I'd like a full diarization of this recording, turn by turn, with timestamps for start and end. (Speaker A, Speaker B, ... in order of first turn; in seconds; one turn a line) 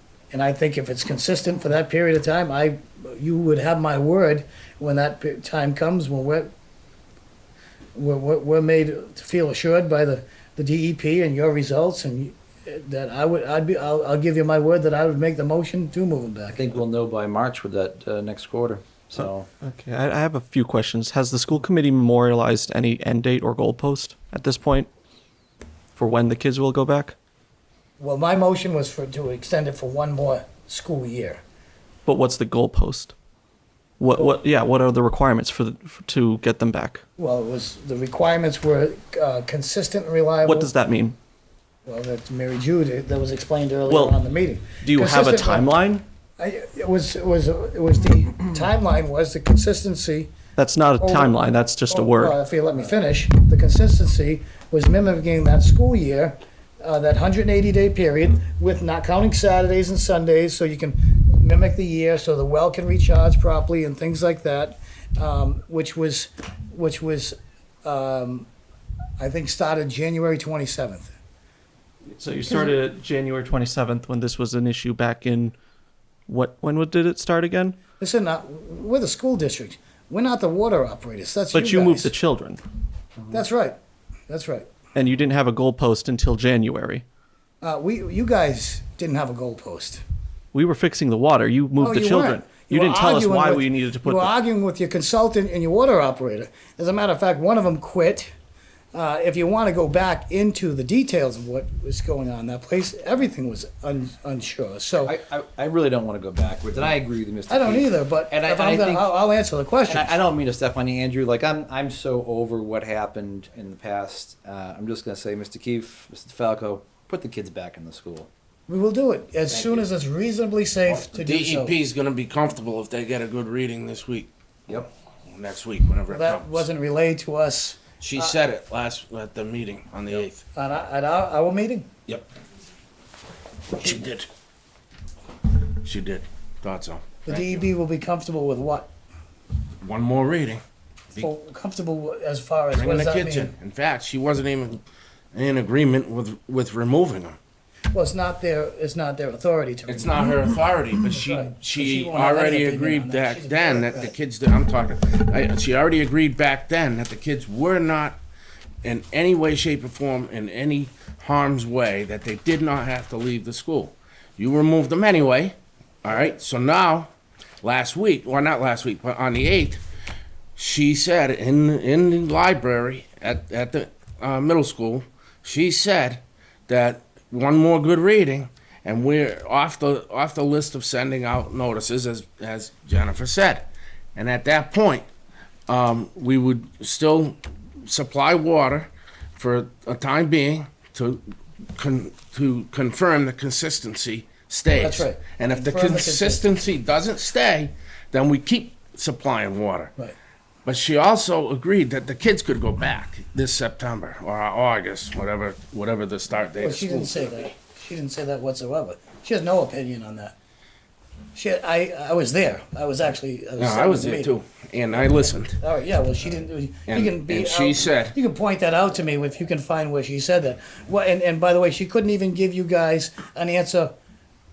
Speaker A: 0.3-6.5
Speaker A: 8.0-16.8
Speaker B: 16.5-19.5
Speaker C: 19.6-24.9
Speaker C: 26.0-27.1
Speaker A: 28.0-31.4
Speaker C: 32.1-33.1
Speaker C: 34.0-37.0
Speaker A: 37.2-40.7
Speaker C: 40.4-41.2
Speaker A: 41.9-45.7
Speaker C: 44.8-46.0
Speaker A: 46.4-50.3
Speaker C: 50.6-52.3
Speaker A: 51.0-68.5
Speaker A: 69.2-71.2
Speaker C: 72.2-75.5
Speaker A: 72.5-72.8
Speaker C: 76.3-77.8
Speaker A: 78.0-82.1
Speaker C: 81.5-82.6
Speaker A: 83.3-83.8
Speaker A: 84.3-84.7
Speaker C: 85.0-87.0
Speaker A: 87.6-90.0
Speaker C: 90.5-94.2
Speaker A: 91.8-98.3
Speaker A: 98.9-105.2
Speaker B: 105.0-109.1
Speaker A: 107.5-110.2
Speaker B: 109.9-118.3
Speaker A: 118.7-121.8
Speaker B: 119.5-119.9
Speaker D: 121.1-124.3
Speaker D: 125.3-126.7
Speaker A: 126.1-128.3
Speaker D: 128.0-130.4
Speaker A: 130.5-131.9
Speaker D: 133.7-134.3
Speaker D: 135.8-137.6
Speaker A: 137.2-138.9
Speaker D: 139.8-140.6
Speaker A: 141.2-143.5
Speaker D: 142.7-144.8
Speaker D: 145.3-147.4
Speaker A: 147.9-150.4
Speaker D: 149.9-158.2
Speaker A: 151.2-154.1
Speaker D: 158.8-167.1
Speaker D: 167.6-169.8
Speaker D: 170.6-185.1
Speaker D: 185.7-191.2
Speaker D: 191.8-199.9
Speaker A: 194.7-196.5
Speaker D: 200.7-207.5
Speaker A: 206.6-210.4
Speaker A: 211.3-214.3
Speaker D: 213.6-215.6
Speaker A: 214.9-223.9
Speaker D: 216.9-218.2